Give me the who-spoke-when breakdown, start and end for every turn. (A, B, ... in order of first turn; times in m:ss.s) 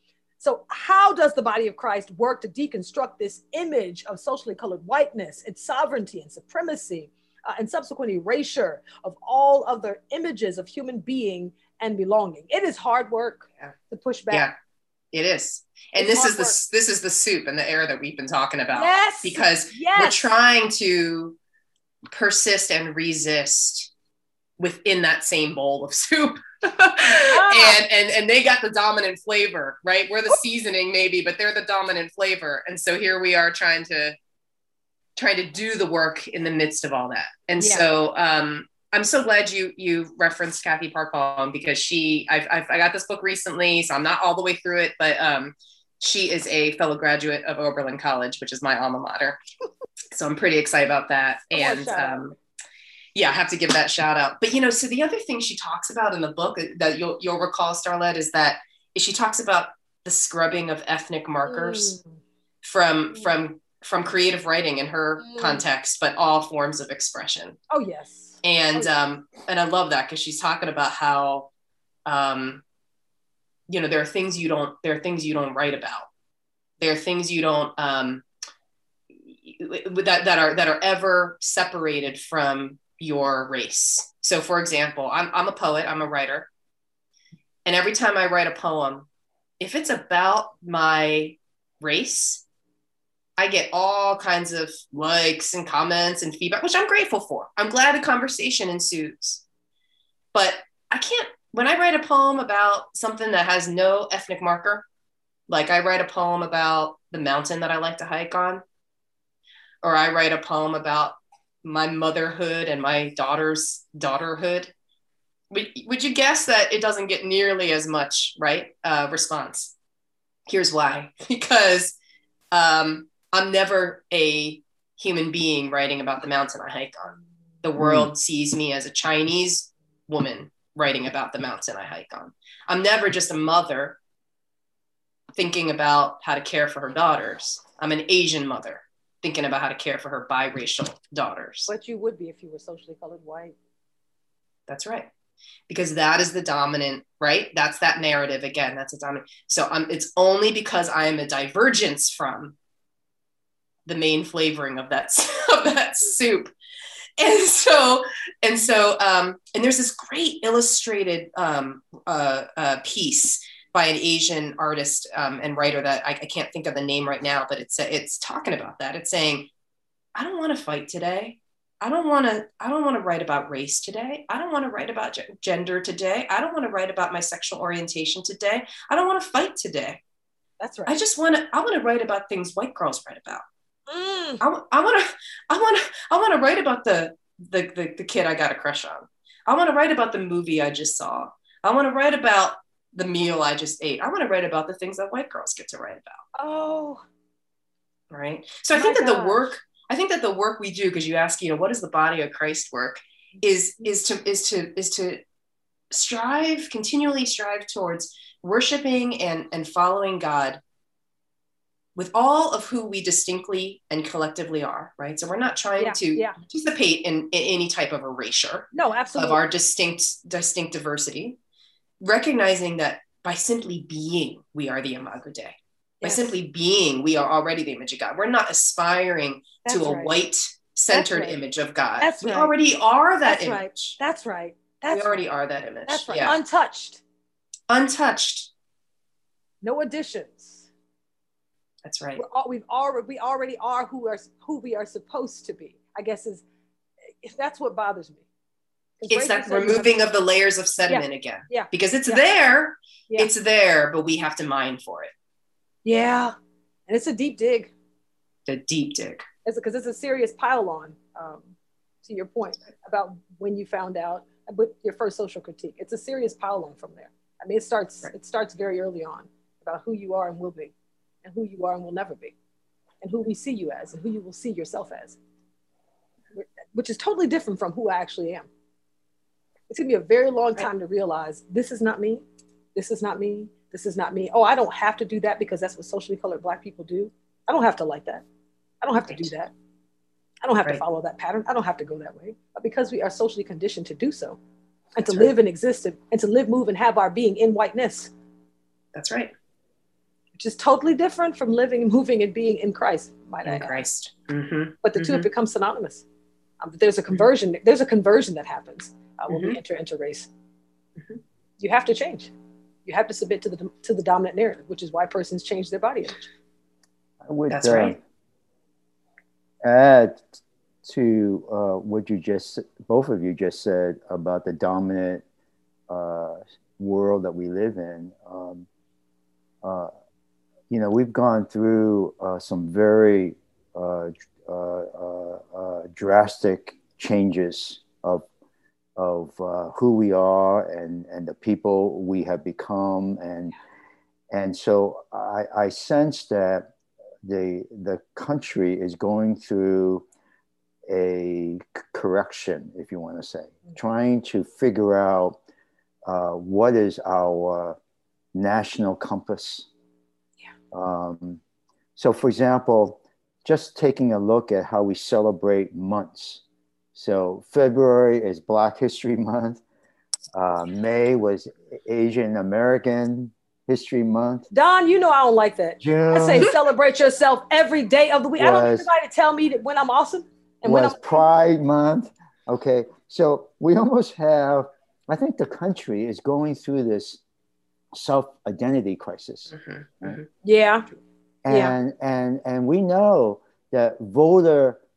0:00.4-0:14.5 A
0:15.1-0:21.4 B
0:16.0-0:16.6 A
0:18.7-0:20.3 A
0:22.1-0:23.9 B
0:24.6-0:34.2 B
0:27.3-0:27.8 A
0:35.2-0:49.4 B
0:37.6-0:37.8 A
0:50.1-0:52.4 B
0:51.5-0:52.2 A
0:53.2-1:02.0 B
1:01.5-1:02.1 A
1:02.6-1:07.6 B
1:05.2-1:05.6 A
1:07.7-1:08.9 A
1:08.4-1:11.5 B
1:12.1-1:12.6 B
1:13.7-1:16.1 B
1:16.8-1:18.2 B
1:19.3-1:26.5 B
1:27.7-1:29.1 B
1:29.6-1:32.4 B
1:33.4-1:39.4 B
1:40.3-1:44.9 B
1:45.5-1:48.6 B
1:49.8-1:54.7 B
1:55.5-1:59.7 B
2:00.5-2:02.0 B
2:02.5-2:14.0 B
2:07.8-2:08.1 C
2:15.4-2:21.7 B
2:21.7-2:23.6 A
2:24.7-2:25.1 B
2:25.7-2:32.6 B
2:33.9-2:36.5 B
2:37.2-2:49.5 B
2:50.2-3:00.0 B
3:00.6-3:01.0 A
3:00.9-3:03.4 B
3:03.9-3:04.4 A
3:04.4-3:16.2 B
3:16.4-3:17.0 A
3:18.1-3:25.2 B
3:18.8-3:19.5 A
3:25.9-3:30.6 B
3:32.0-3:41.4 B
3:35.8-3:36.4 A
3:38.7-3:39.4 A
3:42.0-3:54.0 B
3:46.0-3:46.3 A
3:49.6-3:50.2 A
3:50.9-3:51.4 A
3:52.0-3:52.5 A
3:53.2-3:55.2 A
3:54.9-3:56.4 B
3:55.9-3:57.0 A
3:57.7-3:58.5 B
3:59.6-4:00.7 A
4:01.8-4:02.2 B
4:02.2-4:06.4 A
4:07.2-4:08.2 A
4:09.0-4:10.0 A
4:09.1-4:15.1 B
4:10.9-4:12.2 A
4:15.8-4:16.3 A
4:16.9-4:17.7 A
4:18.5-4:19.2 B
4:19.4-4:21.5 A
4:22.0-4:30.7 A
4:31.2-4:32.4 A
4:33.0-4:35.2 A
4:36.3-4:38.5 A
4:39.7-4:48.2 A
4:48.8-4:49.5 A
4:50.4-4:54.4 A
4:55.0-4:58.1 A
4:58.9-4:59.3 B
5:00.4-5:03.8 A
5:03.4-5:05.3 B
5:04.8-5:06.0 A
5:06.6-5:10.3 A
5:09.3-5:09.6 B
5:11.6-5:12.3 A
5:12.8-5:16.3 A
5:17.2-5:18.0 C
5:17.5-5:18.0 B
5:19.6-5:25.2 C
5:25.9-5:28.7 C
5:29.6-5:29.9 C
5:30.7-5:38.2 C
5:39.0-5:43.5 C
5:44.3-5:46.7 C
5:47.2-5:50.0 C
5:50.9-5:55.4 C
5:56.0-5:57.8 C
5:58.3-5:59.7 C
6:00.7-6:01.4 C
6:02.0-6:06.4 C
6:07.0-6:09.6 C
6:10.3-6:14.5 C
6:14.5-6:21.0 A
6:15.8-6:16.5 C
6:18.4-6:18.9 C
6:20.6-6:27.2 C
6:27.9-6:30.2 C
6:29.5-6:30.3 B
6:30.4-6:30.9 A
6:31.4-6:34.8 C
6:31.5-6:31.8 A